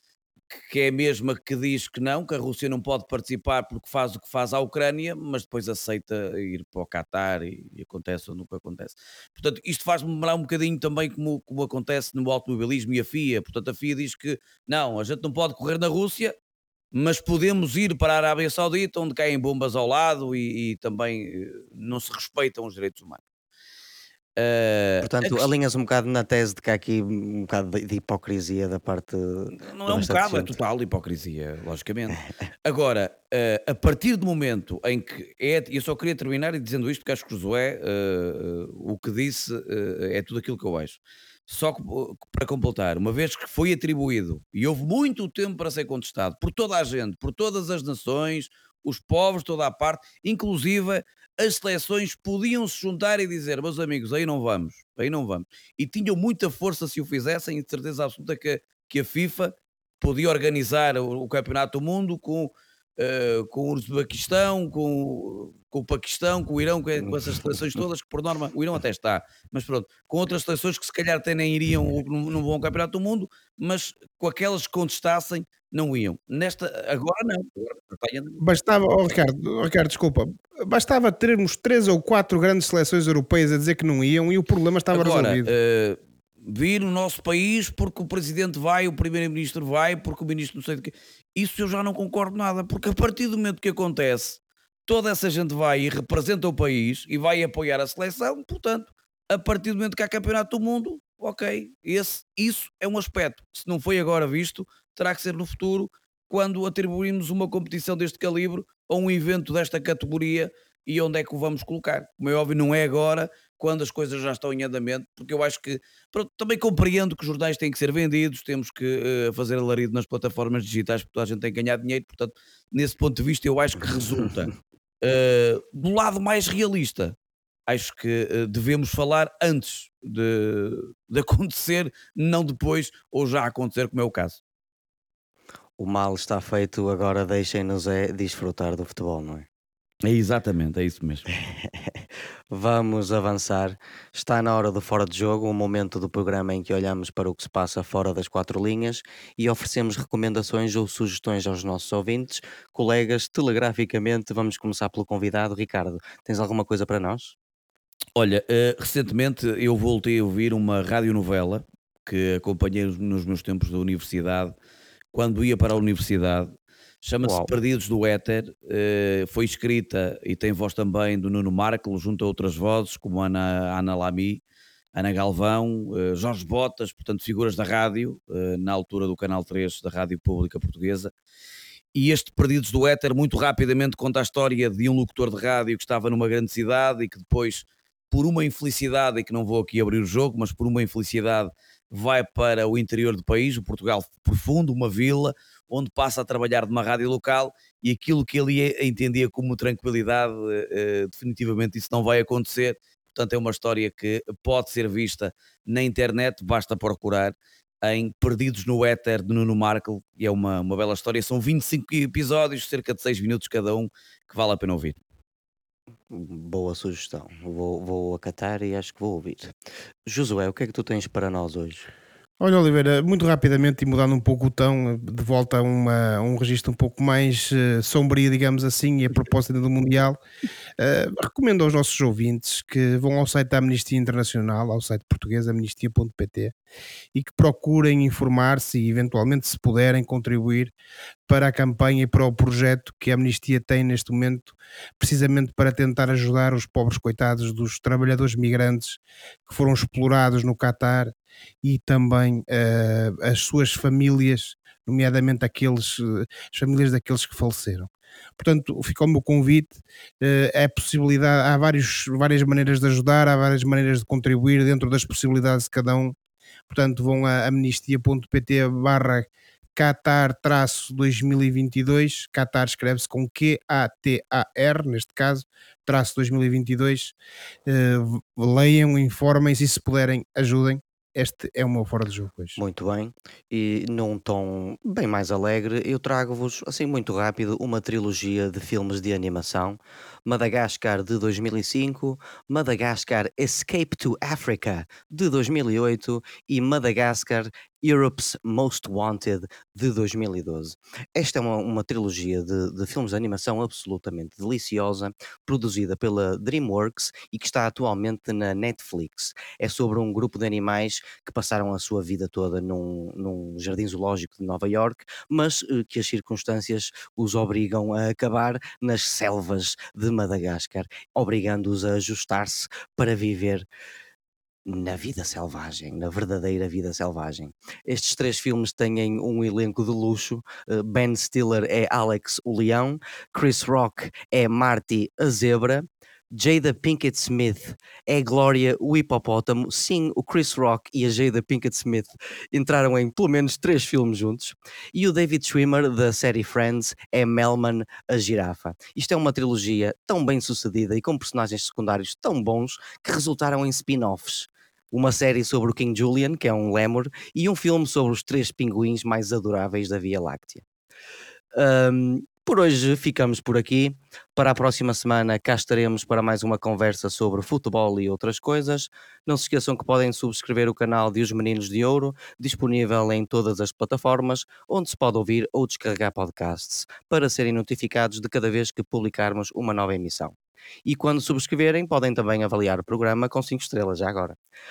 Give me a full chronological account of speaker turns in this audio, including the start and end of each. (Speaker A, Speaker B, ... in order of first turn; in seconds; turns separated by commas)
Speaker A: 0.5-16.3, Speaker A: 16.9-23.2, Speaker A: 24.4-25.5, Speaker B: 25.0-30.5, Speaker A: 29.6-78.4, Speaker B: 67.0-67.5, Speaker C: 78.4-85.5, Speaker A: 84.9-127.1, Speaker A: 127.7-134.4, Speaker B: 135.8-139.5, Speaker A: 140.0-141.3, Speaker B: 141.3-157.3, Speaker A: 158.2-164.6, Speaker A: 165.1-166.5, Speaker A: 167.0-174.4, Speaker B: 167.2-167.5, Speaker A: 174.9-181.1, Speaker A: 181.9-215.0, Speaker B: 216.1-219.5, Speaker B: 220.1-221.9, Speaker C: 222.4-230.2, Speaker C: 230.8-236.5, Speaker C: 237.1-240.7, Speaker C: 241.3-266.1, Speaker C: 266.7-277.1, Speaker C: 277.6-282.6, Speaker B: 282.6-323.6, Speaker B: 324.6-360.6, Speaker B: 361.5-384.4